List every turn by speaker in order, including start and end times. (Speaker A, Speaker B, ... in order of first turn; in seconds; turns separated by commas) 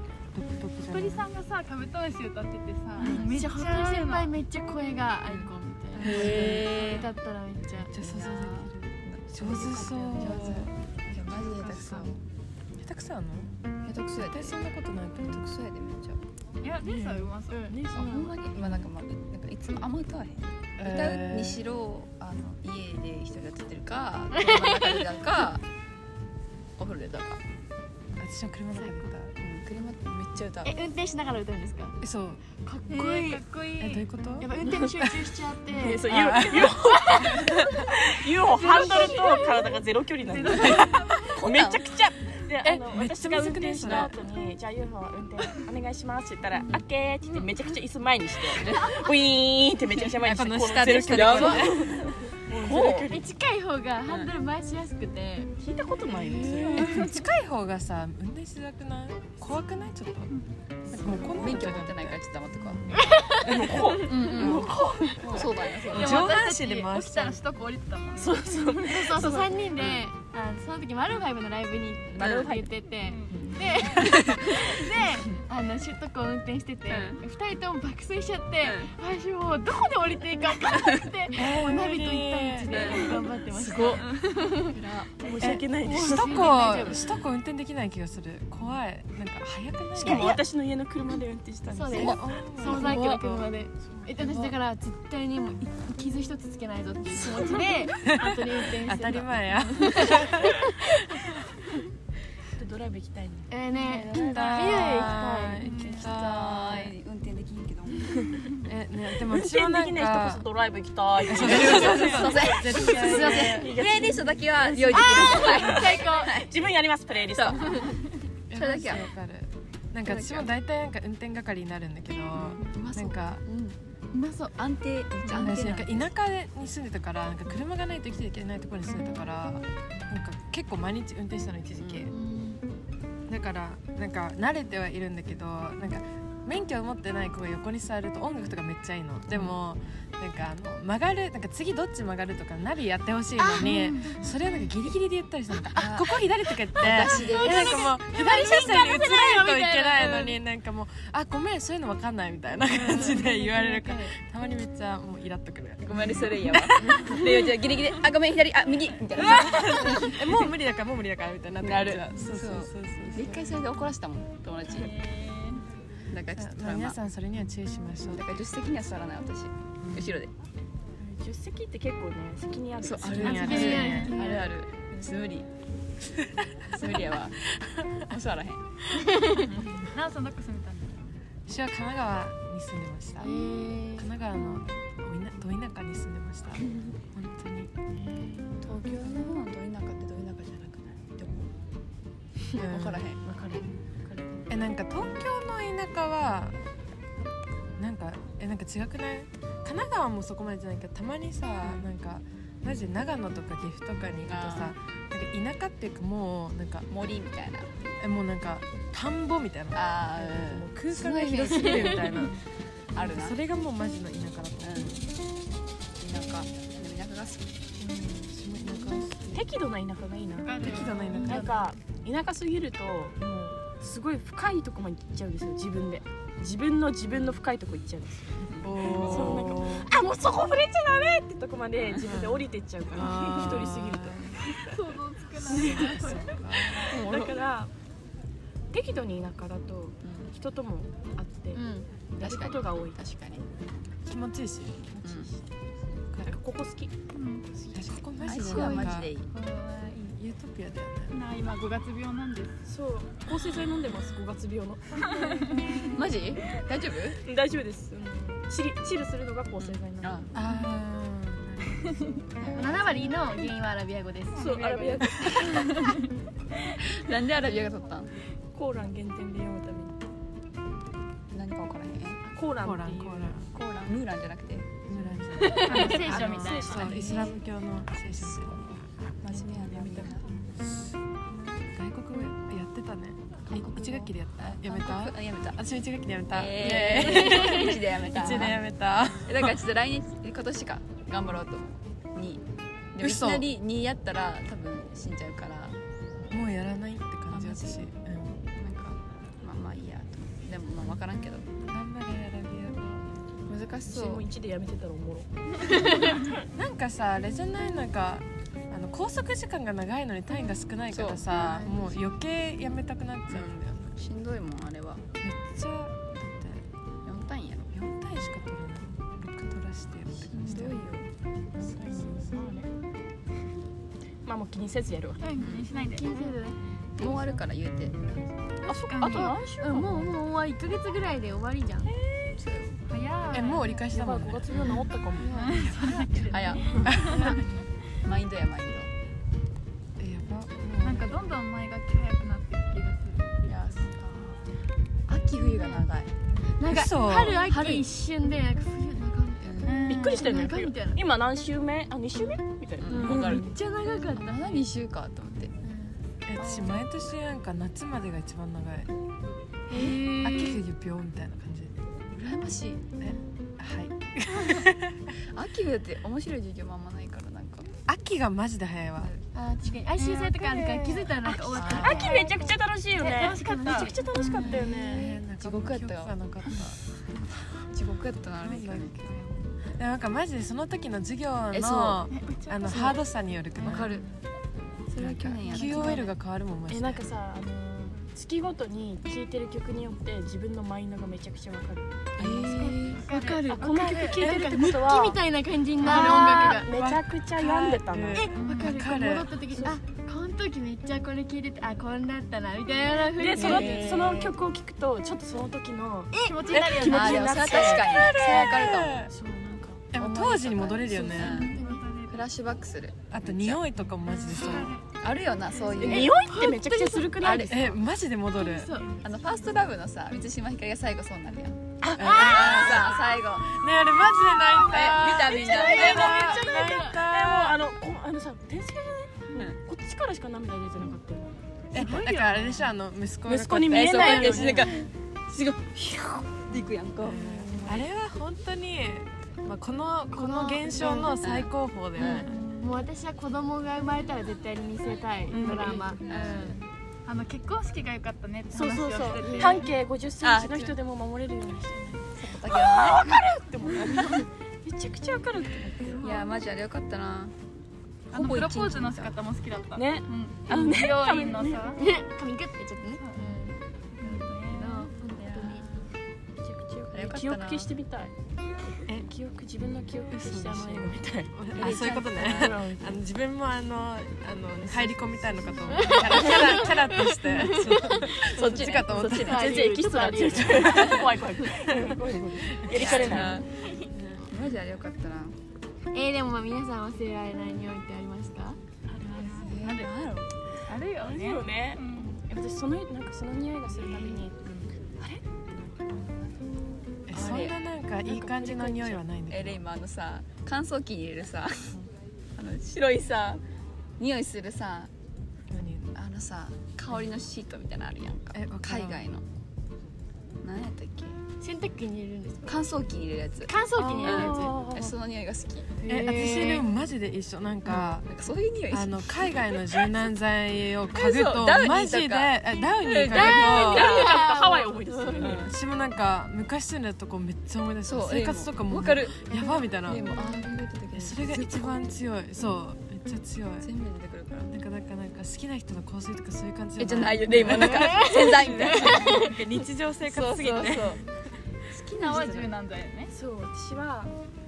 Speaker A: 0.3-1.2, Speaker B: 0.9-4.3, Speaker C: 3.0-7.9, Speaker D: 6.0-7.1, Speaker A: 6.0-6.7, Speaker B: 6.5-7.0, Speaker A: 7.7-10.7, Speaker D: 8.0-12.1, Speaker E: 9.8-10.6, Speaker C: 10.2-10.7, Speaker B: 11.3-12.0, Speaker A: 12.8-13.5, Speaker D: 13.8-14.7, Speaker A: 14.1-15.4, Speaker D: 15.3-16.2, Speaker B: 16.6-17.6, Speaker E: 16.8-18.3, Speaker C: 17.5-18.3, Speaker D: 17.9-25.6, Speaker A: 18.6-18.9, Speaker A: 20.8-21.6, Speaker C: 24.4-25.1, Speaker D: 26.8-27.4, Speaker A: 28.2-29.4, Speaker D: 29.4-30.8, Speaker C: 30.6-32.0, Speaker A: 32.0-32.4, Speaker C: 32.6-33.4, Speaker B: 32.9-34.1, Speaker A: 33.8-34.5, Speaker C: 34.4-36.1, Speaker E: 35.7-53.3, Speaker A: 35.9-36.8, Speaker C: 36.6-37.5, Speaker A: 37.3-37.8, Speaker C: 38.6-39.7, Speaker B: 38.6-39.6, Speaker B: 40.3-41.3, Speaker A: 40.6-40.9, Speaker D: 41.4-41.9, Speaker A: 42.6-44.1, Speaker D: 43.8-44.1, Speaker D: 48.5-49.0, Speaker A: 50.2-52.0, Speaker D: 51.0-51.9, Speaker D: 52.6-53.1, Speaker A: 52.6-53.0, Speaker C: 53.0-55.5, Speaker E: 55.6-57.0, Speaker D: 56.3-56.7, Speaker A: 56.7-60.4, Speaker A: 60.9-62.2, Speaker D: 60.9-63.0, Speaker C: 62.9-64.1, Speaker E: 63.3-65.8, Speaker D: 64.0-66.2, Speaker B: 65.8-68.9, Speaker A: 65.9-67.4, Speaker E: 68.2-69.6, Speaker C: 68.8-84.8, Speaker D: 69.8-70.0, Speaker D: 72.2-72.5, Speaker E: 72.2-72.7, Speaker B: 73.0-73.5, Speaker D: 73.9-74.8, Speaker D: 76.9-77.2, Speaker A: 81.3-83.0, Speaker D: 82.7-85.1, Speaker E: 85.2-87.0, Speaker A: 85.4-90.4, Speaker C: 85.8-87.0, Speaker E: 90.0-94.1, Speaker C: 91.7-100.8, Speaker A: 91.9-93.4, Speaker A: 94.2-94.5, Speaker A: 98.0-101.0, Speaker E: 102.5-105.1, Speaker C: 103.5-105.7, Speaker A: 104.1-106.9, Speaker B: 105.6-106.0, Speaker D: 105.8-108.4, Speaker A: 108.6-110.4, Speaker E: 109.3-118.0, Speaker A: 111.2-113.7, Speaker D: 111.3-116.5, Speaker C: 114.8-116.3, Speaker D: 117.3-117.8, Speaker A: 118.5-123.4, Speaker D: 118.5-119.0, Speaker D: 120.0-120.5, Speaker D: 122.3-123.8, Speaker C: 124.1-124.5, Speaker D: 124.5-126.1, Speaker A: 125.4-132.1, Speaker D: 131.8-132.1, Speaker C: 132.1-132.6, Speaker A: 133.3-157.2, Speaker C: 143.4-144.3, Speaker B: 143.7-144.0, Speaker D: 145.7-147.9, Speaker C: 147.1-150.4, Speaker C: 152.7-154.1, Speaker D: 155.8-160.5, Speaker A: 159.1-163.4, Speaker D: 161.6-165.0, Speaker B: 164.7-165.6, Speaker D: 166.1-166.9, Speaker A: 166.3-168.4, Speaker D: 168.1-170.3, Speaker A: 169.8-170.2, Speaker E: 171.0-173.7, Speaker D: 172.8-175.5, Speaker A: 173.0-174.1, Speaker C: 173.2-174.5, Speaker B: 173.4-174.1, Speaker D: 176.7-177.4, Speaker A: 176.8-178.1, Speaker D: 178.1-178.6, Speaker B: 179.8-181.1, Speaker A: 181.5-183.4, Speaker C: 183.2-184.1, Speaker A: 184.0-187.8, Speaker E: 187.9-189.2, Speaker D: 188.6-191.5, Speaker A: 192.6-193.1, Speaker D: 192.6-193.2, Speaker E: 193.2-194.7, Speaker A: 194.5-196.6, Speaker A: 197.8-206.9, Speaker D: 204.2-204.7, Speaker D: 206.9-207.7, Speaker A: 208.0-212.4, Speaker D: 209.7-212.3, Speaker D: 212.9-213.3, Speaker A: 213.0-215.0, Speaker D: 214.6-215.0, Speaker D: 216.0-217.5, Speaker E: 217.8-218.3, Speaker A: 218.2-219.4, Speaker E: 219.3-234.8, Speaker B: 220.4-221.7, Speaker A: 220.6-221.5, Speaker D: 228.4-229.5, Speaker A: 228.6-229.9, Speaker D: 231.9-232.4, Speaker A: 232.9-234.3, Speaker D: 233.4-233.7, Speaker B: 234.6-236.8, Speaker A: 235.4-237.1, Speaker E: 235.4-236.0, Speaker E: 236.8-237.7, Speaker D: 236.9-237.3, Speaker E: 238.7-243.0, Speaker D: 240.0-240.3, Speaker D: 241.5-243.4, Speaker A: 244.1-245.1, Speaker D: 245.0-245.3, Speaker E: 246.2-246.9, Speaker B: 247.1-247.6, Speaker A: 247.7-251.2, Speaker D: 248.2-249.3, Speaker B: 248.4-249.9, Speaker B: 251.1-252.6, Speaker E: 252.7-255.5, Speaker B: 255.0-255.8, Speaker D: 255.8-257.2, Speaker E: 257.2-260.3, Speaker D: 259.6-260.3, Speaker A: 260.3-263.1, Speaker B: 261.8-262.1, Speaker C: 262.5-264.6, Speaker B: 264.3-266.1, Speaker E: 264.4-265.8, Speaker D: 265.2-265.9, Speaker D: 266.8-268.1, Speaker E: 268.5-270.0, Speaker D: 271.3-272.2, Speaker E: 272.2-273.4, Speaker A: 272.6-273.5, Speaker D: 273.5-275.3, Speaker A: 274.9-289.6, Speaker C: 275.4-275.9, Speaker B: 275.4-277.1, Speaker E: 275.6-276.9, Speaker D: 276.8-277.4, Speaker D: 278.1-278.6, Speaker D: 279.2-280.3, Speaker D: 283.5-285.6, Speaker D: 286.3-288.6, Speaker D: 289.2-292.4, Speaker D: 292.9-295.8, Speaker A: 293.0-293.5, Speaker A: 296.3-298.4, Speaker D: 297.3-297.8, Speaker D: 298.5-301.6, Speaker A: 301.6-303.2, Speaker D: 303.5-304.2, Speaker E: 303.9-306.3, Speaker A: 306.5-313.9, Speaker D: 310.9-311.8, Speaker D: 313.3-315.0, Speaker A: 315.2-316.6, Speaker D: 317.0-317.7, Speaker A: 317.7-320.9, Speaker D: 320.2-321.1, Speaker E: 321.6-322.7, Speaker E: 324.2-325.4, Speaker B: 325.2-326.2, Speaker D: 325.4-325.6, Speaker C: 325.7-326.6, Speaker D: 327.0-328.1, Speaker E: 328.6-330.2, Speaker B: 328.7-329.4, Speaker C: 329.6-331.9, Speaker E: 331.9-332.3, Speaker D: 332.4-332.8, Speaker B: 332.9-333.8, Speaker A: 333.3-334.6, Speaker E: 333.9-336.9, Speaker D: 334.5-334.8, Speaker C: 335.2-335.8, Speaker B: 335.3-337.3, Speaker D: 336.3-338.9, Speaker A: 336.9-337.2, Speaker C: 337.1-337.4, Speaker A: 340.0-341.2, Speaker B: 340.8-343.7, Speaker D: 343.4-344.4, Speaker D: 345.1-346.1, Speaker C: 346.6-351.0, Speaker A: 346.7-347.6, Speaker D: 347.5-347.8, Speaker D: 349.4-349.9, Speaker B: 349.6-350.5, Speaker E: 349.8-353.4, Speaker D: 352.8-355.5, Speaker C: 352.9-354.6, Speaker A: 353.0-353.5, Speaker C: 355.6-355.9, Speaker A: 356.3-358.9, Speaker D: 356.4-356.8, Speaker C: 359.7-360.6, Speaker A: 359.8-361.7, Speaker D: 362.1-362.9, Speaker A: 363.0-365.1, Speaker D: 365.3-367.7, Speaker A: 367.9-369.1, Speaker D: 369.0-369.2, Speaker C: 369.3-374.9, Speaker B: 370.0-370.6, Speaker A: 371.2-371.9, Speaker D: 371.5-372.1, Speaker E: 371.8-375.1, Speaker B: 373.4-374.6, Speaker D: 374.3-376.7, Speaker A: 374.9-376.8, Speaker D: 377.7-379.4, Speaker A: 378.4-378.9, Speaker A: 379.8-383.9, Speaker D: 381.5-382.1, Speaker C: 382.1-382.8, Speaker D: 382.6-383.0, Speaker D: 383.6-384.1, Speaker D: 384.9-386.1, Speaker A: 385.0-387.0, Speaker B: 385.5-385.9, Speaker E: 386.7-392.7, Speaker D: 392.2-393.0, Speaker C: 392.6-396.7, Speaker B: 392.9-394.1, Speaker E: 393.5-395.2, Speaker A: 394.2-394.6, Speaker E: 395.8-398.3, Speaker A: 395.8-399.4, Speaker C: 398.1-404.1, Speaker B: 398.4-398.8, Speaker E: 399.5-399.8, Speaker E: 403.1-408.2, Speaker D: 403.4-404.4, Speaker C: 406.1-406.4, Speaker B: 406.2-407.6, Speaker A: 406.5-406.9, Speaker D: 406.9-409.1, Speaker A: 407.6-409.1, Speaker E: 409.1-409.9, Speaker A: 409.9-411.5, Speaker D: 409.9-411.6, Speaker C: 411.1-411.8, Speaker B: 411.1-412.2, Speaker D: 412.1-413.6, Speaker A: 413.1-414.7, Speaker B: 414.4-414.7, Speaker D: 414.6-416.3, Speaker E: 415.8-417.6, Speaker C: 415.8-417.3, Speaker D: 417.2-417.8, Speaker A: 417.3-418.7, Speaker C: 418.4-419.0, Speaker D: 419.0-423.5, Speaker E: 421.8-422.8, Speaker A: 421.9-427.6, Speaker C: 422.0-422.6, Speaker E: 424.6-432.3, Speaker D: 424.7-426.2, Speaker C: 425.3-426.9, Speaker A: 431.7-434.7, Speaker E: 433.2-434.8, Speaker D: 433.7-437.9, Speaker A: 437.0-442.4, Speaker C: 440.1-441.2, Speaker D: 441.2-442.3, Speaker B: 442.0-442.7, Speaker C: 442.6-446.6, Speaker E: 445.4-445.8, Speaker A: 445.4-445.8, Speaker D: 445.7-446.6, Speaker B: 447.1-449.7, Speaker E: 448.5-456.2, Speaker C: 449.2-449.6, Speaker D: 450.2-450.7, Speaker D: 452.1-453.2, Speaker D: 456.0-457.3, Speaker D: 458.1-459.1, Speaker B: 458.1-461.8, Speaker E: 459.7-461.8, Speaker C: 461.8-465.7, Speaker B: 463.0-463.4, Speaker B: 464.0-464.9, Speaker D: 465.2-465.9, Speaker E: 466.4-468.1, Speaker D: 466.9-467.7, Speaker E: 468.7-473.0, Speaker A: 470.1-479.5, Speaker D: 471.5-472.6, Speaker E: 474.7-476.6, Speaker C: 475.7-478.3, Speaker D: 478.1-479.6, Speaker C: 479.1-481.0, Speaker E: 479.2-483.4, Speaker A: 480.5-480.9, Speaker D: 480.6-481.1, Speaker A: 481.7-483.3, Speaker D: 482.7-485.4, Speaker C: 485.9-488.6, Speaker B: 488.9-489.9, Speaker D: 489.2-490.3, Speaker B: 490.6-492.2, Speaker E: 491.0-496.0, Speaker D: 493.8-494.7, Speaker A: 497.1-499.6, Speaker D: 497.1-497.6, Speaker E: 498.0-498.9, Speaker D: 499.3-501.8, Speaker D: 502.4-503.4, Speaker D: 504.0-504.9, Speaker A: 505.5-505.9, Speaker D: 505.9-509.2, Speaker A: 508.3-509.0, Speaker D: 510.4-511.1, Speaker C: 511.4-512.6, Speaker D: 512.5-515.8, Speaker C: 513.4-514.6, Speaker E: 513.8-514.9, Speaker C: 515.8-516.7, Speaker A: 515.8-518.1, Speaker D: 517.7-520.0, Speaker A: 518.7-524.0, Speaker D: 520.9-524.2, Speaker E: 523.1-525.5, Speaker C: 523.1-525.3, Speaker D: 525.2-525.5, Speaker A: 525.3-530.0, Speaker D: 527.8-531.9, Speaker A: 530.9-533.7, Speaker D: 533.6-534.5, Speaker A: 534.5-541.0, Speaker D: 536.8-539.4, Speaker C: 537.5-539.4, Speaker D: 540.0-541.0, Speaker D: 541.7-542.5, Speaker B: 542.0-543.1, Speaker E: 543.1-544.1